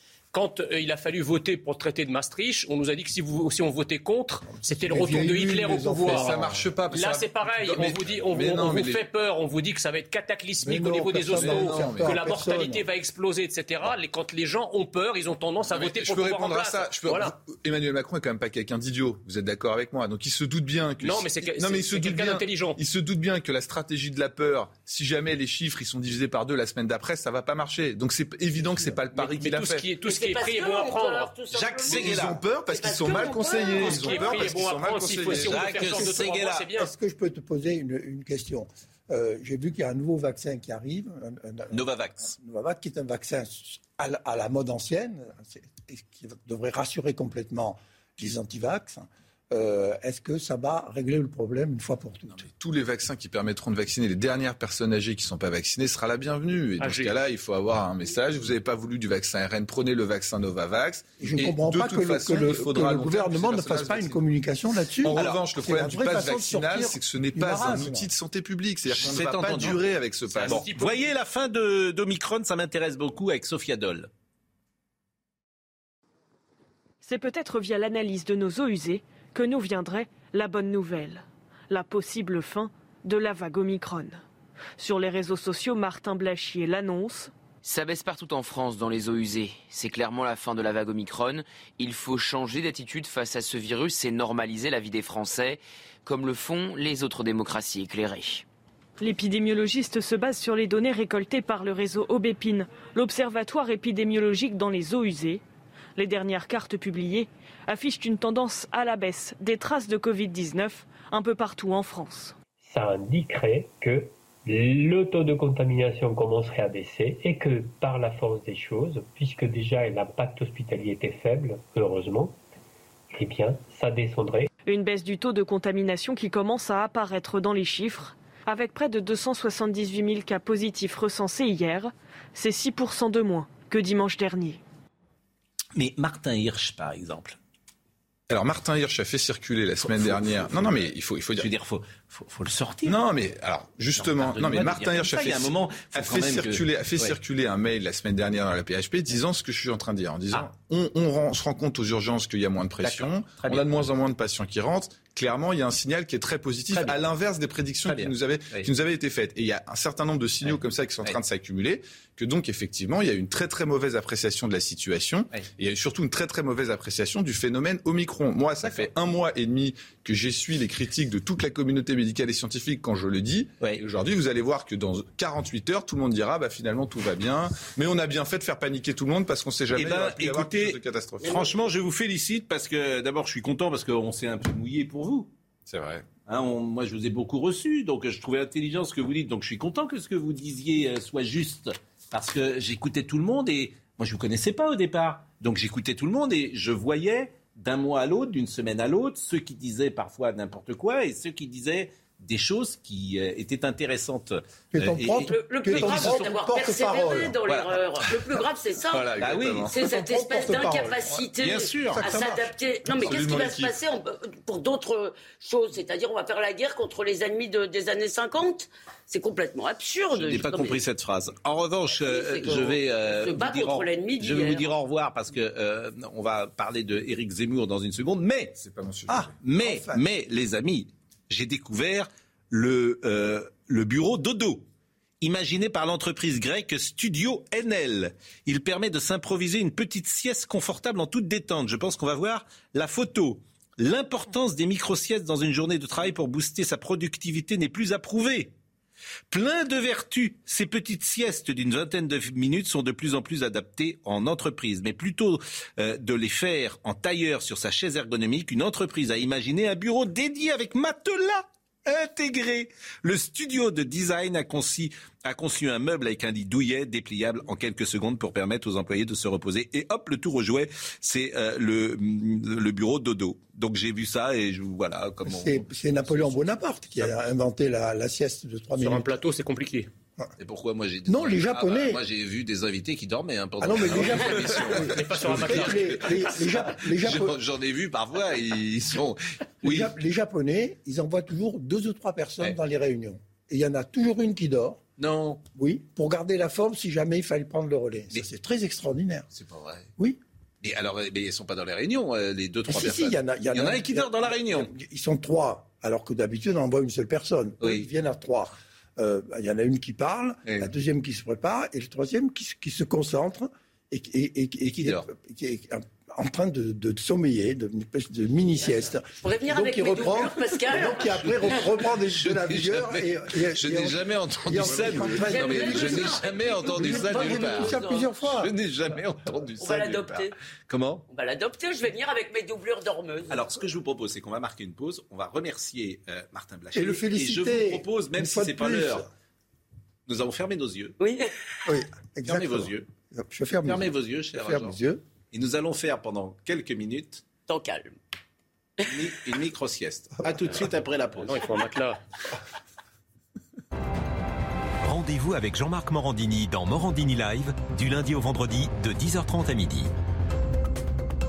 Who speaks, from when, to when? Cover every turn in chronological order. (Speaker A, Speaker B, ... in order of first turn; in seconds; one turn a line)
Speaker A: 0.3-6.4
Speaker B: 4.6-6.6
Speaker C: 6.0-9.0
Speaker A: 6.9-17.3
Speaker B: 10.6-12.8
Speaker C: 11.2-12.2
Speaker C: 15.7-29.9
Speaker A: 21.0-22.8
Speaker A: 29.1-31.3
Speaker D: 30.0-34.5
Speaker E: 31.5-32.4
Speaker C: 31.9-35.9
Speaker A: 33.6-36.9
Speaker E: 35.3-36.7
Speaker B: 36.8-52.4
Speaker E: 41.7-42.3
Speaker C: 52.4-64.2
Speaker A: 56.8-57.1
Speaker B: 61.2-68.1
Speaker C: 65.0-70.6
Speaker E: 68.9-69.8
Speaker A: 70.3-71.0
Speaker E: 70.4-74.1
Speaker F: 77.0-84.2
Speaker F: 84.8-87.3
Speaker G: 87.6-98.4
Speaker F: 99.0-105.4
Speaker F: 106.0-112.3
Speaker H: 112.6-122.3
Speaker H: 123.1-124.5
Speaker F: 124.6-134.6
Speaker E: 135.7-137.4
Speaker C: 138.3-141.5
Speaker E: 139.8-143.0
Speaker C: 142.8-181.4
Speaker E: 143.9-147.2
Speaker E: 152.8-153.9
Speaker E: 156.7-157.0
Speaker E: 157.8-158.7
Speaker E: 160.4-161.2
Speaker E: 168.6-168.9
Speaker E: 179.7-185.3
Speaker C: 185.7-186.1
Speaker E: 186.2-206.3
Speaker B: 204.7-207.4
Speaker D: 205.3-220.8
Speaker E: 207.4-208.1
Speaker C: 208.9-209.8
Speaker E: 209.2-209.7
Speaker B: 209.7-211.3
Speaker E: 211.4-212.0
Speaker B: 211.9-212.4
Speaker C: 212.9-213.7
Speaker E: 220.1-228.6
Speaker D: 221.9-224.7
Speaker C: 228.6-229.3
Speaker B: 229.1-230.0
Speaker E: 229.4-234.7
Speaker E: 235.2-248.5
Speaker E: 249.3-276.4
Speaker B: 275.2-279.1
Speaker A: 278.8-279.9
Speaker E: 280.4-289.9
Speaker B: 281.1-282.0
Speaker B: 283.6-287.4
Speaker A: 284.9-285.9
Speaker B: 289.6-294.8
Speaker E: 295.0-295.4
Speaker B: 295.5-299.3
Speaker E: 299.3-299.9
Speaker E: 300.6-304.7
Speaker B: 302.7-328.5
Speaker E: 307.6-307.9
Speaker E: 314.6-315.1
Speaker D: 319.2-321.1
Speaker E: 321.0-331.0
Speaker D: 325.2-328.1
Speaker D: 329.6-330.3
Speaker D: 331.1-333.6
Speaker E: 333.3-339.1
Speaker B: 336.7-339.1
Speaker E: 340.1-340.9
Speaker D: 341.0-341.3
Speaker B: 341.6-345.0
Speaker E: 342.2-342.9
Speaker E: 343.6-344.8
Speaker E: 345.3-347.2
Speaker D: 347.5-348.0
Speaker E: 348.9-351.5
Speaker A: 351.2-352.0
Speaker I: 354.8-359.9